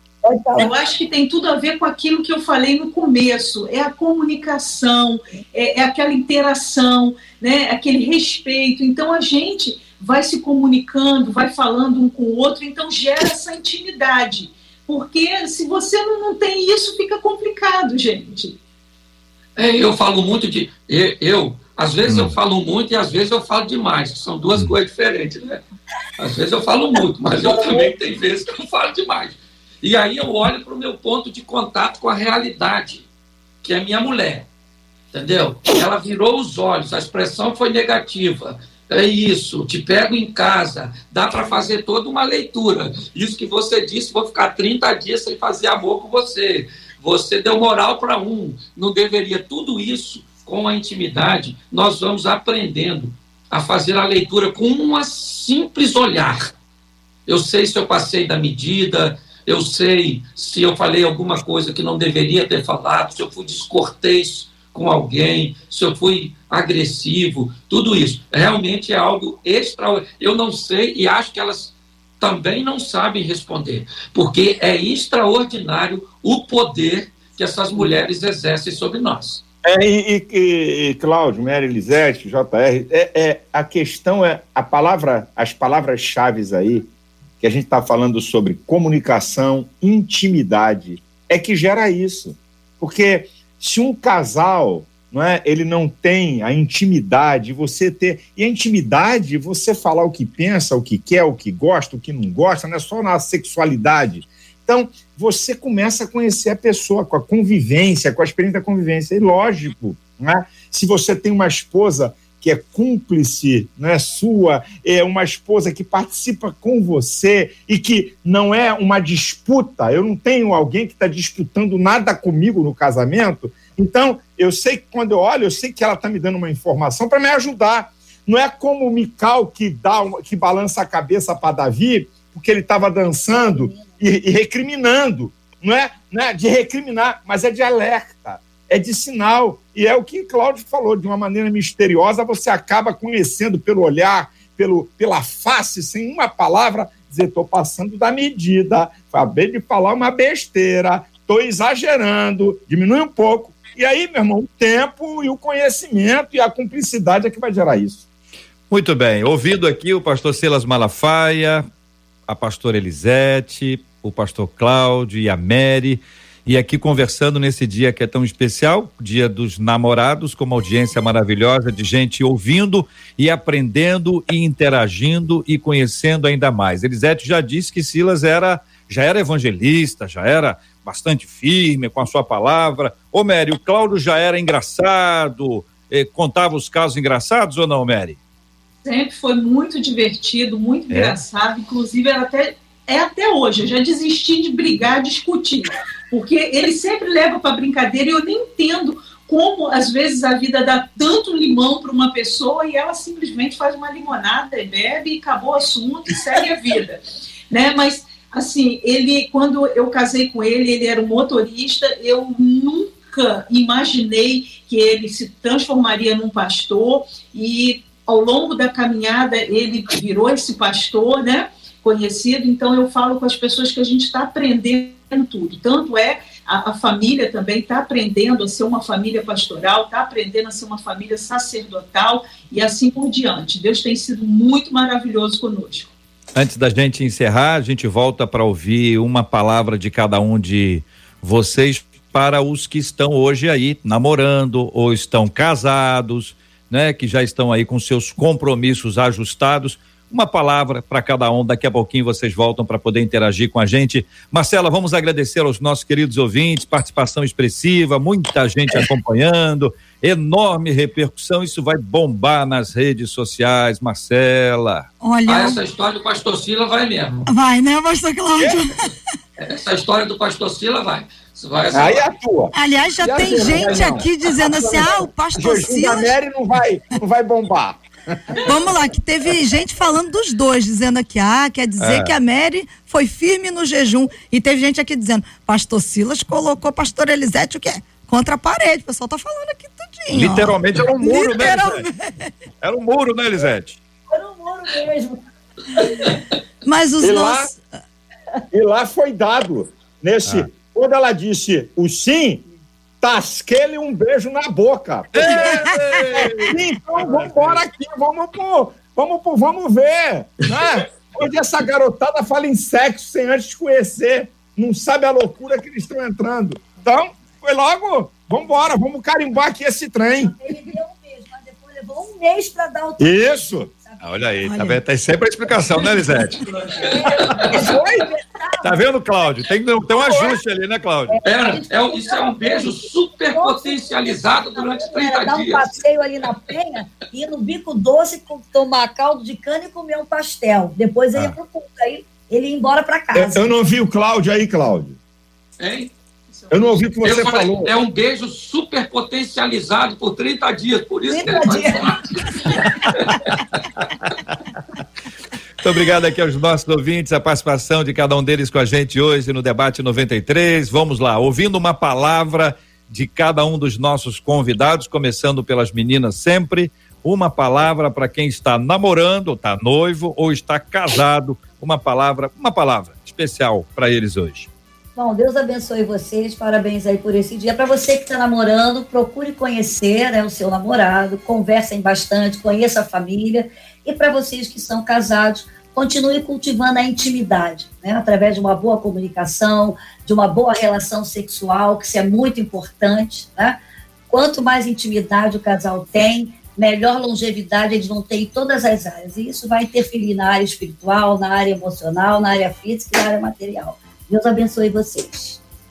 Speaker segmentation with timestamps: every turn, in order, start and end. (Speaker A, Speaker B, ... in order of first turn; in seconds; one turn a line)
Speaker A: 0.2-0.7
Speaker B: 0.6-18.6
Speaker C: 19.6-25.6
Speaker D: 22.1-22.4
Speaker C: 26.2-33.1
Speaker A: 27.5-27.9
Speaker C: 33.6-34.5
Speaker C: 35.1-56.5
Speaker C: 57.3-79.4
Speaker E: 79.6-86.9
Speaker E: 87.4-158.1
Speaker A: 133.2-134.0
Speaker D: 158.7-161.7
Speaker D: 162.3-188.2
Speaker B: 188.8-235.9
Speaker D: 190.9-191.2
Speaker D: 236.3-264.9
Speaker F: 265.0-265.6
Speaker C: 265.3-267.3
Speaker F: 267.3-268.9
Speaker C: 269.4-272.1
Speaker E: 271.7-278.2
Speaker F: 272.5-276.1
Speaker F: 278.4-292.3
Speaker D: 281.8-282.1
Speaker D: 290.1-291.9
Speaker D: 292.6-293.8
Speaker A: 294.1-295.2
Speaker F: 296.6-297.6
Speaker E: 297.0-297.5
Speaker E: 298.5-302.4
Speaker E: 303.0-305.7
Speaker D: 305.1-307.6
Speaker E: 306.5-320.3
Speaker A: 320.2-324.2
Speaker E: 323.0-323.7
Speaker D: 324.0-326.4
Speaker F: 324.4-324.8
Speaker A: 326.7-328.8
Speaker C: 327.2-327.4
Speaker E: 327.4-328.0
Speaker D: 328.6-331.2
Speaker A: 331.1-343.5
Speaker C: 331.2-335.8
Speaker E: 343.1-345.0
Speaker C: 345.6-345.9
Speaker B: 346.3-346.8
Speaker E: 346.5-347.7
Speaker C: 347.0-353.2
Speaker A: 351.1-352.0
Speaker D: 355.6-374.5
Speaker A: 374.9-393.6
Speaker A: 394.1-405.4